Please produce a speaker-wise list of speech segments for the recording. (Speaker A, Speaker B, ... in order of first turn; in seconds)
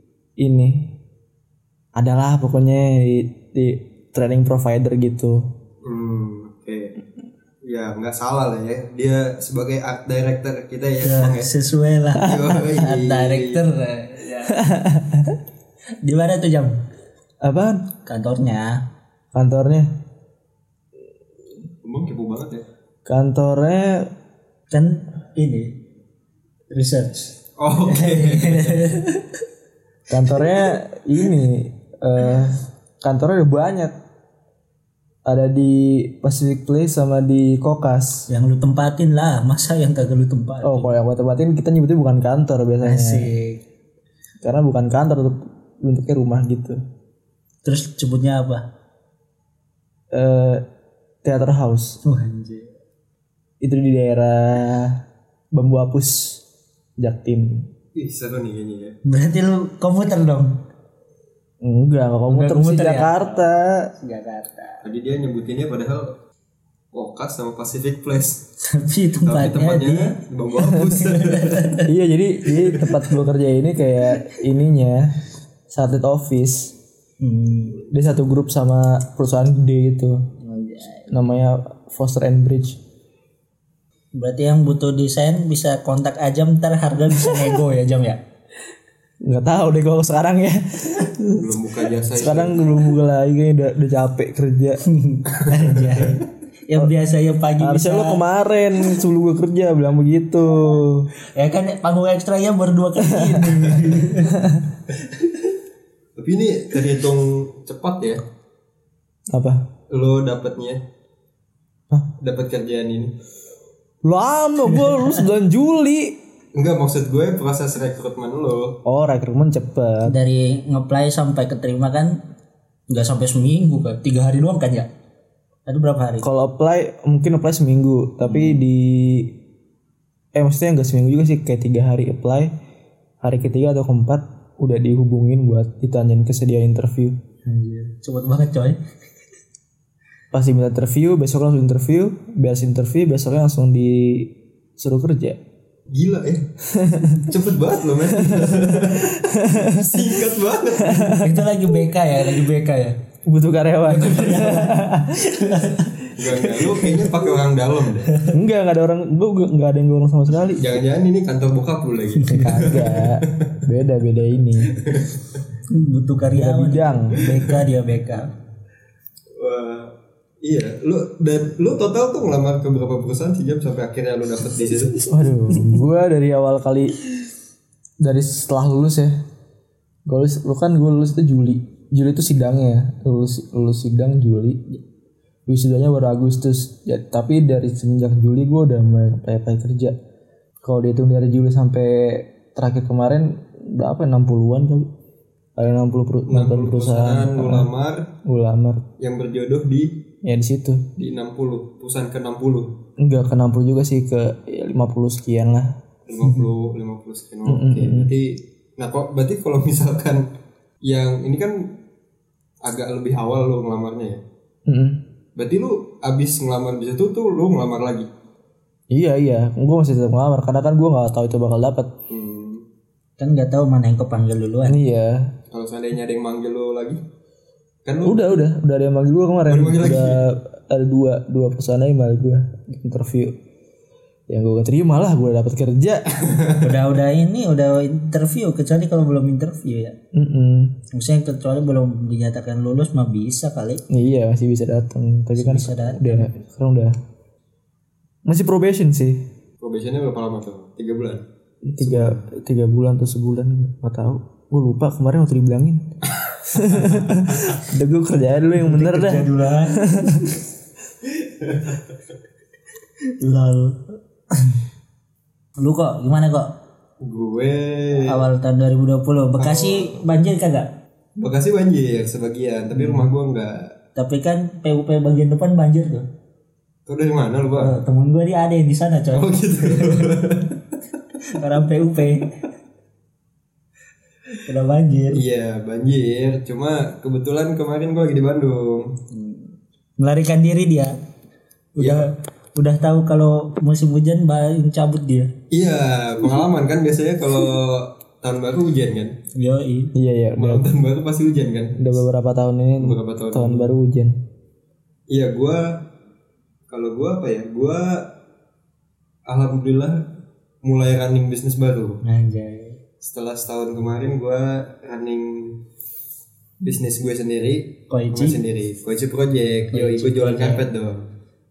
Speaker A: 0.4-0.9, 1.9-5.5, 14.5-15.3, 17.4-17.9, 19.3-19.9, 23.1-24.1, 30.1-34.0, 35.2-38.3, 40.6-43.3, 44.4-46.8, 50.1-50.6, 51.2-52.0, 53.6-55.0, 55.5-56.4, 57.0-57.7, 61.6-63.9, 71.8-75.2, 75.7-76.7, 77.9-80.3, 81.1-82.8, 89.2-91.5, 92.1-94.8, 97.6-101.1, 103.0-104.7, 109.3-109.7, 114.0-116.2, 118.8-120.1, 126.2-129.3, 130.3-132.5, 133.2-137.2, 140.3-145.4, 146.7-147.3, 148.1-150.0, 150.8-151.3, 153.2-155.2, 158.3-160.8, 162.3-164.8, 166.3-167.2, 175.0-177.0, 178.0-179.1, 180.1-184.8, 185.5-189.9, 190.6-194.9, 195.6-197.7, 198.2-198.8, 200.2-200.9, 203.0-205.8, 207.4-208.1, 214.7-215.0, 218.9-221.9, 224.7-225.3, 228.0-233.3, 234.3-236.1, 240.1-240.8, 243.9-247.0, 248.2-249.2, 251.7-255.9, 256.4-260.4, 299.9-300.7, 301.8-304.2
Speaker B: 5.8-7.0, 7.6-11.5, 12.1-13.6, 21.8-22.6, 27.6-28.9, 57.9-59.0, 64.8-66.2, 66.9-68.4, 69.2-71.8, 91.3-92.8, 95.4-95.8, 106.2-108.2, 109.9-110.8, 112.2-113.1, 116.5-118.8, 145.9-146.5, 147.1-151.3, 156.2-158.1, 160.6-163.6, 164.7-165.2, 169.3-175.0, 196.3-198.1, 199.0-200.0, 200.9-202.7, 206.1-210.3, 210.8-211.8, 212.6-214.2, 215.3-218.1, 222.1-222.6, 225.5-227.0, 227.8-228.3, 229.5-230.2, 236.2-236.7, 249.6-251.2, 251.8-252.2, 261.2-261.9, 267.0-268.2, 269.4-270.0, 271.1-273.7, 276.9-277.8, 279.1-280.5, 285.1-289.0, 291.8-292.1, 295.5-299.2, 300.4-302.0, 302.8-303.7, 305.1-305.8, 306.7-308.1, 309.2-310.1, 310.6-312.0, 313.0-315.6, 316.6-321.1
Speaker C: 11.0-14.6, 16.0-16.8, 18.1-18.8, 24.7-25.8, 26.7-29.3, 38.3-40.9, 42.8-43.6, 47.6-48.6, 52.0-52.7, 59.0-60.6, 62.3-64.9, 68.6-71.9, 72.5-73.1, 77.2-77.8, 80.4-81.1, 84.1-88.2, 94.8-98.2, 101.3-104.4, 114.7-115.2, 120.0-122.2, 122.9-124.9, 125.7-126.3, 128.2-128.6, 137.4-138.8, 151.2-153.0, 153.9-157.0, 158.1-158.3, 162.2-162.5, 165.7-168.3, 223.2-224.8, 236.6-239.9, 240.9-243.8, 245.3-246.3, 258.6-260.4, 263.2-264.6, 265.6-266.6, 268.0-270.7, 272.7-273.1, 273.9-276.1, 277.5-280.1, 281.2-282.3, 284.4-285.2, 289.1-291.0, 291.8-295.3, 299.3-299.9, 312.0-312.8, 317.9-318.4, 319.7-320.6